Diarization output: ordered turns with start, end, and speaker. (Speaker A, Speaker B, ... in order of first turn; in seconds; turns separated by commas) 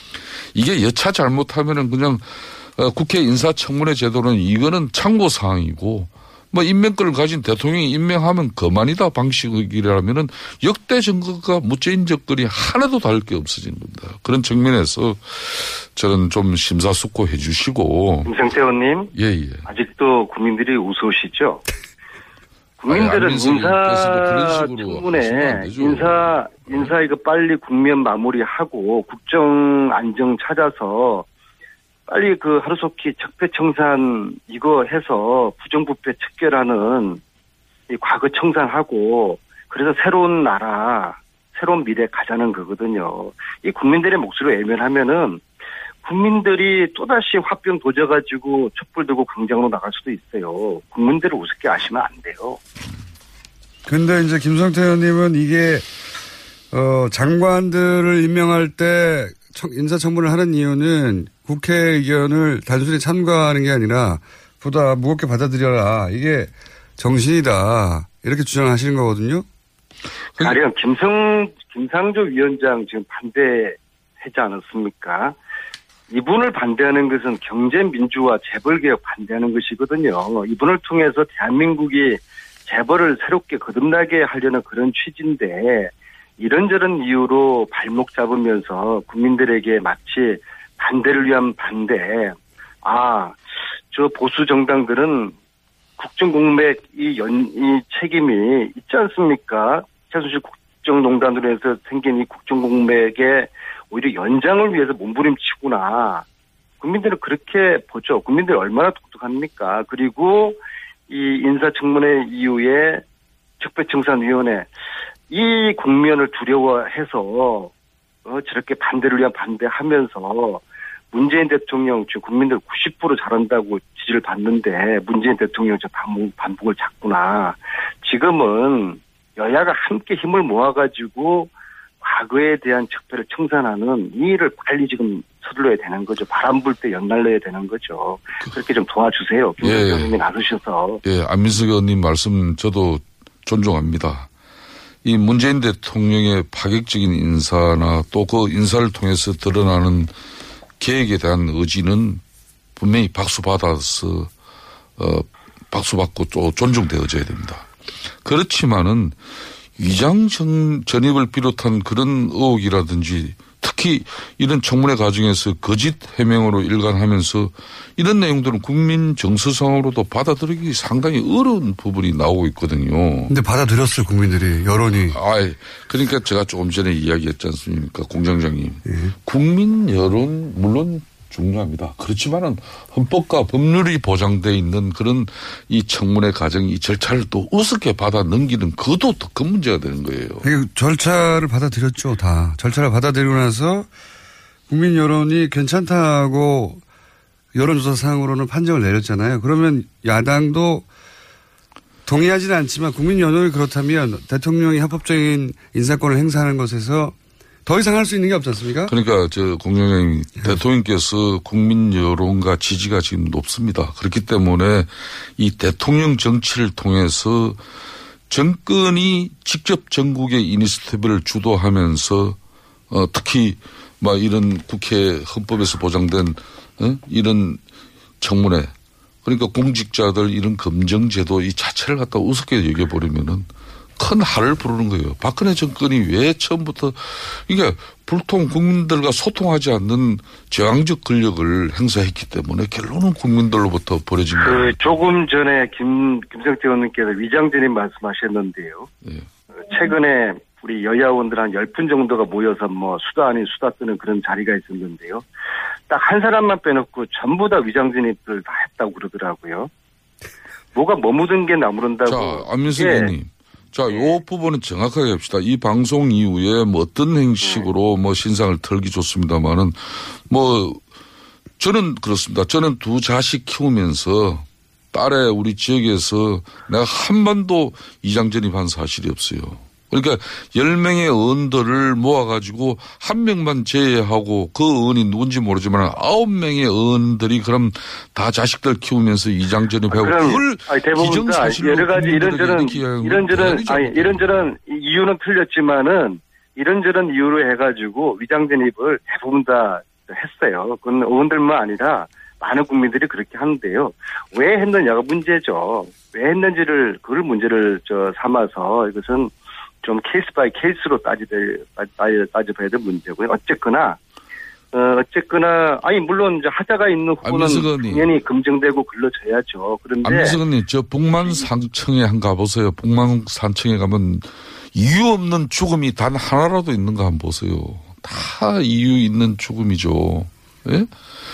Speaker A: 0.5-18.3, Speaker B: 18.3-19.1, Speaker A: 19.1-19.6, Speaker B: 19.7-21.6, Speaker B: 22.8-31.3, Speaker A: 22.9-26.9, Speaker B: 32.1-37.2, Speaker B: 37.9-45.4, Speaker B: 46.0-52.6, Speaker C: 53.9-55.9, Speaker C: 56.7-69.5, Speaker B: 70.4-75.4, Speaker B: 76.1-95.3, Speaker B: 96.0-106.2, Speaker B: 106.8-113.0, Speaker B: 113.6-114.7, Speaker B: 115.3-117.7, Speaker B: 118.2-141.0, Speaker A: 139.6-140.1, Speaker A: 141.0-144.3, Speaker A: 145.1-150.1, Speaker A: 150.8-152.2, Speaker A: 152.8-154.3, Speaker A: 155.0-157.7, Speaker A: 158.2-159.2, Speaker A: 159.8-173.3, Speaker C: 173.3-175.2, Speaker A: 175.1-190.5, Speaker C: 178.9-179.1, Speaker C: 190.4-193.9, Speaker C: 194.7-196.8, Speaker C: 197.5-200.9, Speaker C: 202.1-207.1, Speaker C: 207.7-208.9, Speaker A: 208.9-217.6, Speaker A: 218.3-222.4, Speaker A: 222.9-227.6, Speaker A: 228.2-228.7, Speaker A: 229.2-233.5, Speaker A: 234.0-244.8, Speaker B: 244.4-248.9, Speaker A: 249.0-249.3, Speaker B: 249.6-255.2, Speaker B: 255.9-259.7, Speaker B: 260.7-263.1, Speaker A: 262.1-270.8, Speaker B: 267.4-267.7, Speaker A: 271.6-294.5, Speaker B: 289.9-314.0, Speaker B: 314.7-320.4, Speaker A: 317.2-318.1, Speaker A: 320.0-330.9